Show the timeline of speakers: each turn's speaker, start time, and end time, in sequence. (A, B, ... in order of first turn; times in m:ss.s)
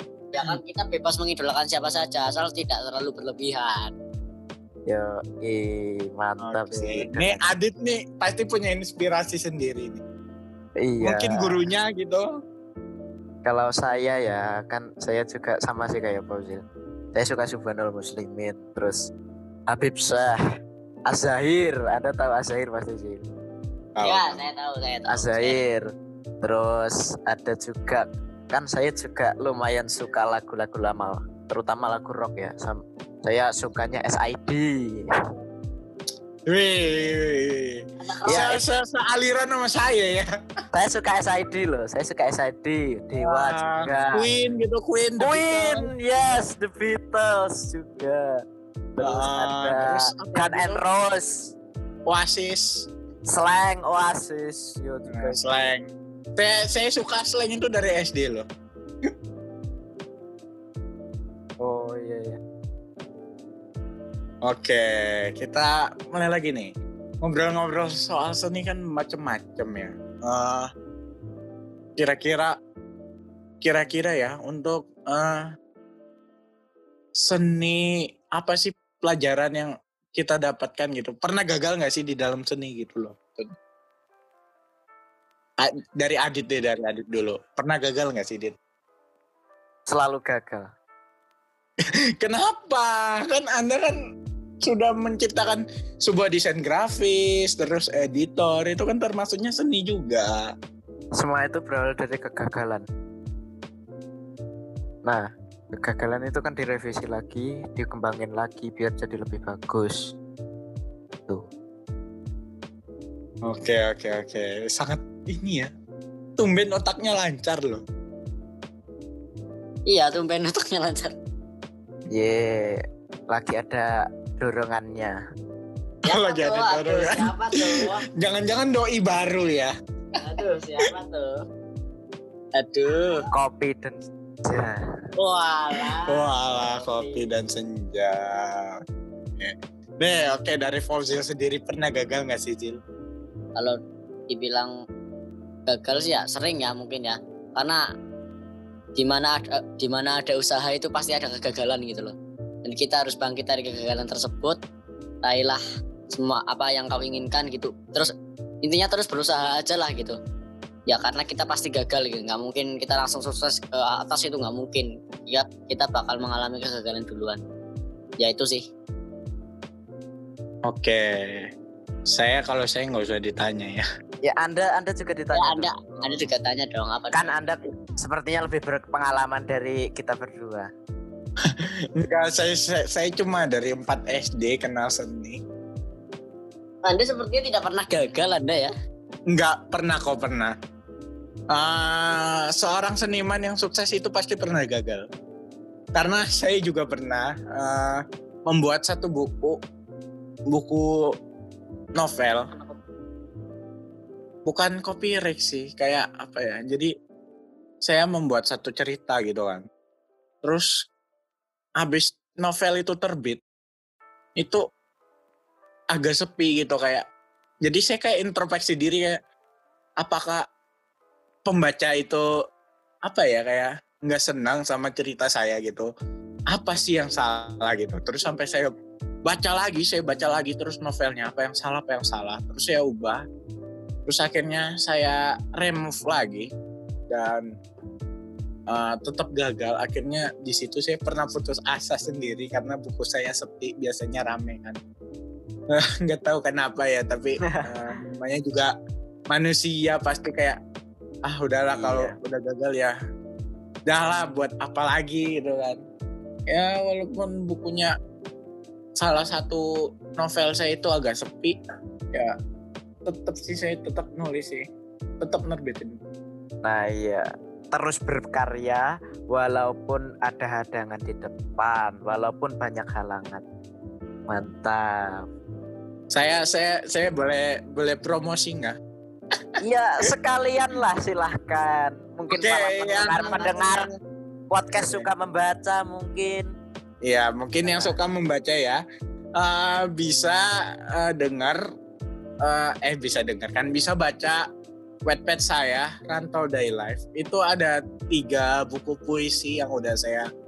0:00.3-0:03.9 A
0:04.9-0:07.4 B
0:06.4-0:10.0 C
0:10.8-0:11.6 B
0:11.0-0:12.2 C
0:13.4-0:19.1 B
0:19.7-0:20.4 B
0:21.1-0:23.3 B
0:23.9-0:24.4 C
0:24.0-0:25.6 A
0:25.1-0:25.8 B
0:26.4-0:35.0 B
0:36.5-0:40.3 C
0:38.0-0:38.5 A
0:38.3-0:38.6 B
0:40.7-0:44.3 B
0:43.2-0:45.9 C
0:45.2-0:48.4 B
0:49.0-0:51.5 B
0:49.0-0:50.8 C
0:52.1-0:52.9 C
0:53.3-0:55.7 B
0:55.1-0:58.4 C
1:01.6-1:02.4 B
1:04.4-1:06.7 C
1:07.2-1:10.7 C
1:12.0-1:12.5 C
1:13.6-1:15.4 C
1:17.2-1:17.8 C
1:18.4-1:23.5 C
1:25.6-1:28.5 C
1:29.9-1:30.7 B
1:32.2-1:33.9 C
1:34.6-1:40.4 C
1:41.2-1:42.9 B
1:45.0-1:50.1 B
1:53.5-1:55.7 C
1:56.4-1:57.8 C
1:59.9-2:01.1 A
2:02.1-2:02.8 B
2:03.3-2:05.2 B
2:06.0-2:08.0 A
2:06.1-2:09.7 C
2:10.2-2:11.4 A
2:12.5-2:13.2 A
2:13.3-2:14.8 B
2:15.2-2:17.3 A
2:16.1-2:18.7 C
2:19.4-2:22.8 C
2:24.3-2:24.7 A
2:25.7-2:27.8 A
2:29.0-2:34.6 A
2:35.2-2:40.1 A
2:40.9-2:47.4 A
2:48.2-2:48.7 A
2:50.7-2:51.5 C
2:52.1-2:53.8 C
2:54.2-2:56.2 B
2:55.3-2:57.4 A
2:57.1-3:00.7 B
3:02.0-3:05.4 C
3:06.8-3:08.7 A
3:09.3-3:10.5 C
3:11.5-3:15.0 C
3:15.9-3:19.6 C
3:20.5-3:20.9 C
3:22.0-3:22.5 C
3:24.4-3:26.9 C
3:27.8-3:29.6 C
3:30.4-3:30.7 C
3:31.8-3:33.4 C
3:35.9-3:37.0 C
3:37.6-3:39.2 C
3:40.0-3:40.4 C
3:41.4-3:42.2 C
3:43.1-3:45.9 C
3:46.5-3:48.7 C
3:49.2-3:53.2 C
3:54.1-3:56.5 C
3:57.1-3:57.4 C
3:58.7-4:04.8 C
4:05.7-4:08.7 C
4:09.3-4:10.6 C
4:11.3-4:12.9 C
4:11.7-4:12.1 B
4:13.9-4:15.8 C
4:16.5-4:17.9 C
4:19.0-4:21.6 C
4:23.0-4:24.6 C
4:25.2-4:26.0 C
4:26.6-4:33.4 B
4:34.3-4:35.2 B
4:36.1-4:38.8 C
4:39.6-4:43.8 B
4:42.3-4:43.9 C
4:44.5-4:46.5 B
4:44.8-4:45.1 C
4:47.0-4:48.8 C
4:47.6-4:47.9 B
4:49.4-4:50.4 C
4:50.9-4:51.6 C
4:52.4-4:54.4 C
4:55.1-5:00.2 C